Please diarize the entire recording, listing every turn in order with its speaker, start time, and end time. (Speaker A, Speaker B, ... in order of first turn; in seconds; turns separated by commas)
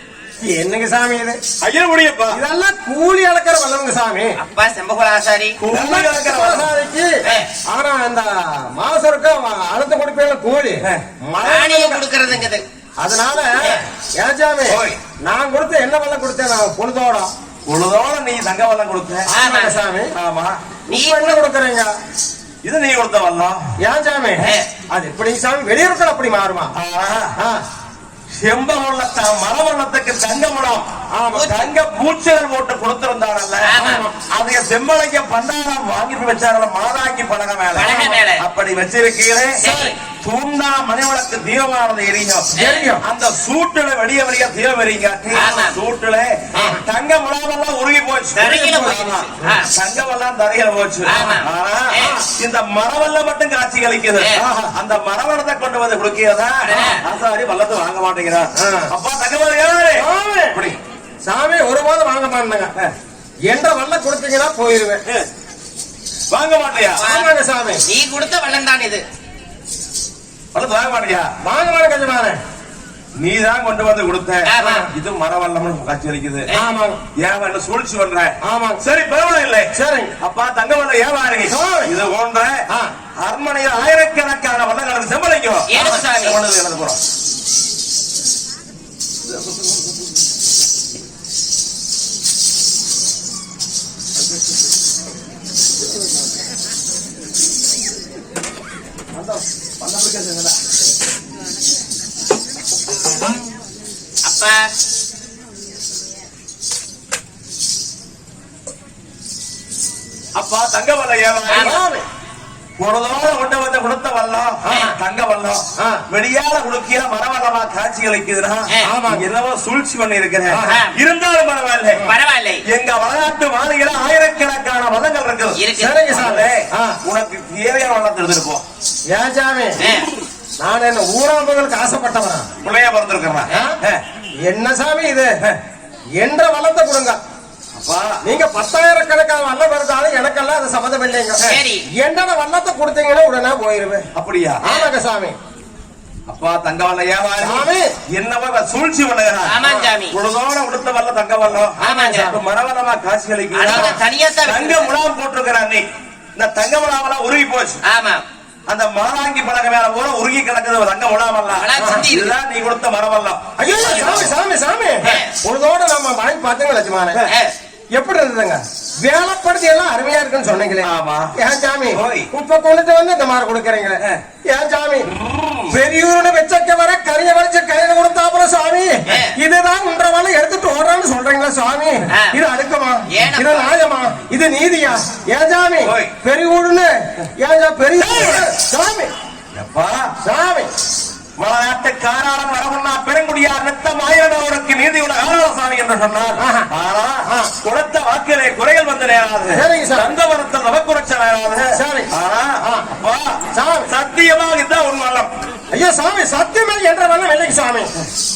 Speaker A: 0.4-1.4, Speaker B: 1.6-2.4, Speaker A: 2.3-4.3, Speaker C: 4.4-5.6, Speaker B: 5.6-6.7, Speaker A: 5.7-7.2, Speaker C: 7.2-7.5, Speaker A: 7.7-12.0, Speaker C: 11.4-12.6, Speaker A: 13.0-17.3, Speaker C: 13.6-13.8, Speaker B: 14.7-15.0, Speaker B: 17.6-19.2, Speaker C: 19.3-19.8, Speaker A: 19.3-20.1, Speaker B: 20.1-20.6, Speaker C: 20.9-21.4, Speaker A: 20.9-21.9, Speaker B: 22.6-23.6, Speaker A: 23.8-26.7, Speaker C: 24.4-24.7, Speaker B: 26.8-27.3, Speaker A: 27.4-27.6, Speaker B: 28.3-30.9, Speaker A: 31.1-31.5, Speaker C: 31.3-31.6, Speaker B: 31.4-60.8, Speaker C: 33.6-34.1, Speaker A: 33.8-34.1, Speaker C: 37.8-38.4, Speaker A: 37.8-38.2, Speaker C: 39.6-40.0, Speaker C: 42.6-42.9, Speaker A: 42.6-43.0, Speaker C: 45.3-45.8, Speaker A: 46.5-46.8, Speaker C: 48.4-49.7, Speaker A: 48.4-48.9, Speaker C: 51.1-52.1, Speaker A: 52.0-52.2, Speaker A: 54.4-54.7, Speaker C: 56.6-57.0, Speaker A: 58.6-58.9, Speaker A: 60.0-60.6, Speaker A: 61.2-62.7, Speaker A: 63.5-65.0, Speaker B: 66.3-67.0, Speaker C: 67.0-67.3, Speaker A: 67.0-67.8, Speaker C: 67.8-69.0, Speaker B: 70.5-71.3, Speaker A: 71.4-72.4, Speaker B: 73.2-76.4, Speaker C: 74.5-74.8, Speaker A: 74.6-74.9, Speaker A: 76.5-77.0, Speaker B: 77.2-82.6, Speaker A: 78.4-78.8, Speaker A: 79.7-80.1, Speaker A: 81.5-81.9, Speaker B: 83.2-87.0, Speaker C: 85.7-86.4, Speaker B: 99.2-100.6, Speaker C: 104.2-104.7, Speaker B: 110.3-111.8, Speaker C: 111.5-111.8, Speaker A: 111.6-112.0, Speaker B: 112.8-122.0, Speaker A: 114.6-114.9, Speaker A: 115.8-116.0, Speaker A: 118.8-119.3, Speaker A: 120.5-120.8, Speaker C: 120.6-120.9, Speaker C: 122.0-122.6, Speaker B: 122.7-128.6, Speaker C: 125.6-126.0, Speaker A: 125.8-127.0, Speaker A: 129.1-129.8, Speaker C: 129.8-130.1, Speaker A: 130.6-132.5, Speaker B: 132.6-134.0, Speaker A: 133.5-133.8, Speaker A: 134.4-135.3, Speaker A: 136.2-137.2, Speaker B: 137.8-138.2, Speaker A: 138.2-144.1, Speaker C: 141.4-141.8, Speaker B: 144.1-144.6, Speaker A: 144.6-145.3, Speaker B: 146.3-149.6, Speaker A: 147.4-147.9, Speaker C: 149.4-150.1, Speaker A: 149.6-149.9, Speaker B: 150.1-151.8, Speaker C: 151.8-152.3, Speaker A: 151.8-152.4, Speaker B: 152.3-155.8, Speaker C: 153.5-154.9, Speaker B: 156.3-157.8, Speaker C: 157.8-158.2, Speaker B: 158.7-164.3, Speaker C: 161.6-162.4, Speaker A: 161.8-162.1, Speaker A: 163.6-167.2, Speaker C: 163.8-164.3, Speaker C: 165.0-165.3, Speaker C: 167.3-167.5, Speaker A: 167.9-175.1, Speaker B: 170.8-171.3, Speaker B: 171.9-172.3, Speaker B: 175.0-175.8, Speaker A: 175.7-189.1, Speaker C: 179.1-179.3, Speaker C: 182.1-182.4, Speaker C: 183.1-183.7, Speaker B: 185.8-186.1, Speaker B: 188.0-188.5, Speaker B: 189.5-190.1, Speaker A: 190.2-190.7, Speaker B: 191.4-205.3, Speaker A: 196.4-196.7, Speaker A: 197.2-197.5, Speaker A: 199.5-200.2, Speaker A: 201.7-202.1, Speaker A: 202.6-202.9, Speaker A: 203.5-203.9, Speaker A: 205.7-207.9